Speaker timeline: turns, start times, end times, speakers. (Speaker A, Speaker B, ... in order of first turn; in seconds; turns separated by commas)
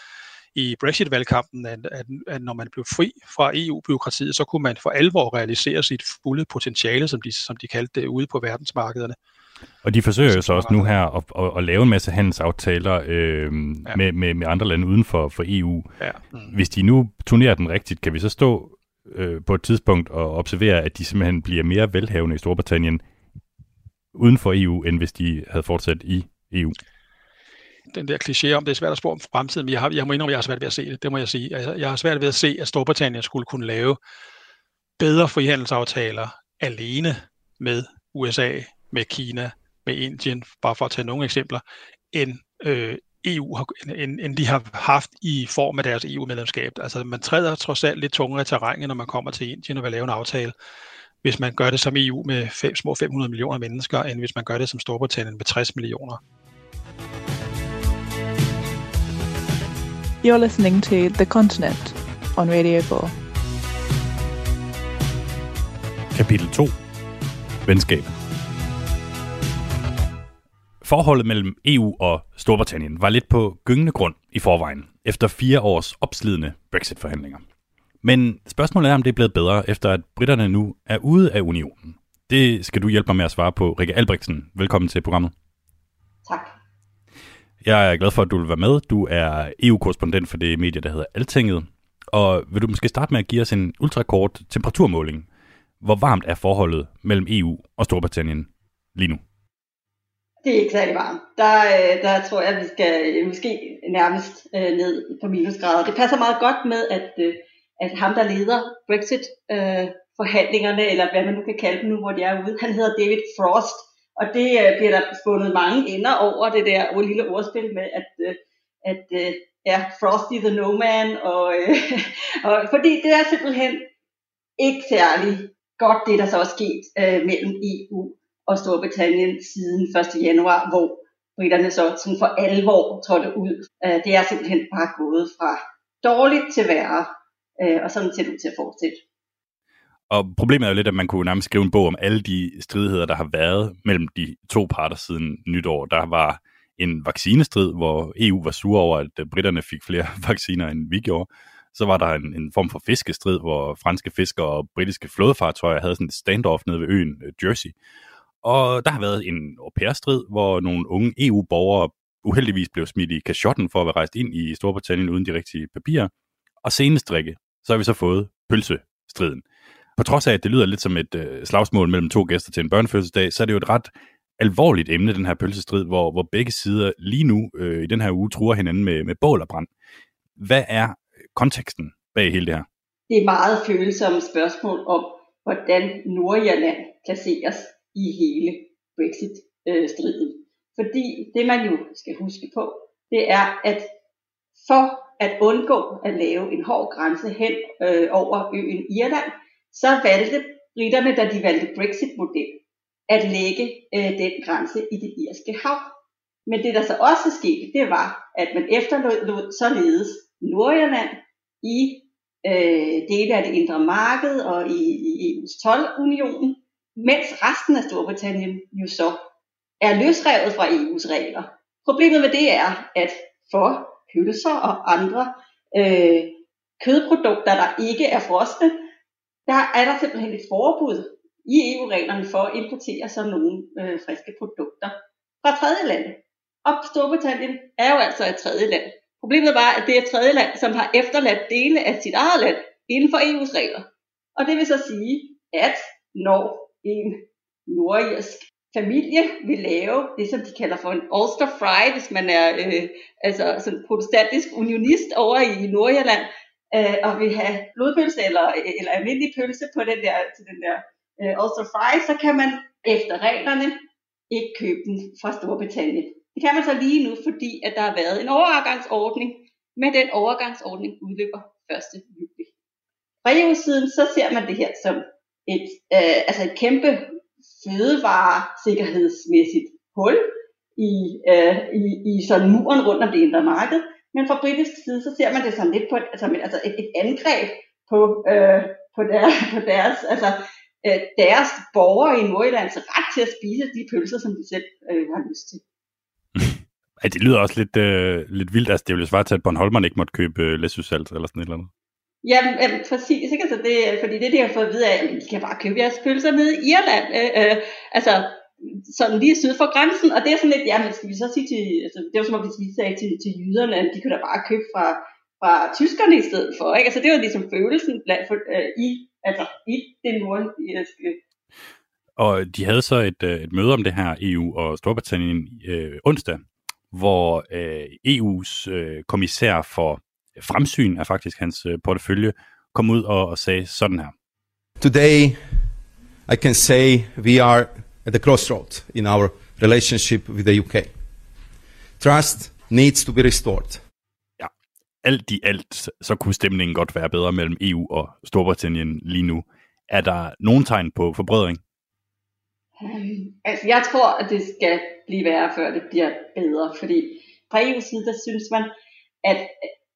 Speaker A: 0.5-9.2, Speaker B: 9.8-23.0, Speaker A: 10.3-10.9, Speaker A: 16.0-16.6, Speaker B: 24.1-26.8, Speaker A: 27.9-34.0, Speaker A: 35.0-50.5, Speaker A: 51.2-56.2, Speaker C: 60.2-63.1, Speaker B: 66.1-66.7, Speaker B: 67.7-68.1, Speaker B: 70.8-77.4, Speaker B: 78.0-85.3, Speaker D: 86.2-86.5, Speaker B: 87.6-95.2, Speaker B: 95.8-99.2, Speaker D: 100.4-123.8, Speaker D: 124.6-137.1, Speaker D: 137.6-139.0, Speaker B: 140.1-157.8, Speaker B: 158.4-166.1, Speaker B: 166.6-169.4, Speaker B: 170.0-179.7, Speaker B: 180.4-182.7, Speaker D: 183.1-193.9, Speaker D: 194.6-205.9, Speaker D: 206.5-219.2, Speaker D: 219.8-228.8, Speaker D: 229.5-243.8, Speaker D: 244.4-263.8, Speaker D: 264.3-272.5, Speaker D: 273.2-295.6, Speaker B: 296.4-301.7, Speaker D: 302.2-321.2, Speaker B: 322.2-334.1, Speaker E: 334.8-335.5, Speaker E: 336.3-340.9, Speaker E: 342.0-343.8, Speaker B: 345.0-351.6, Speaker D: 352.8-358.7, Speaker D: 359.2-359.6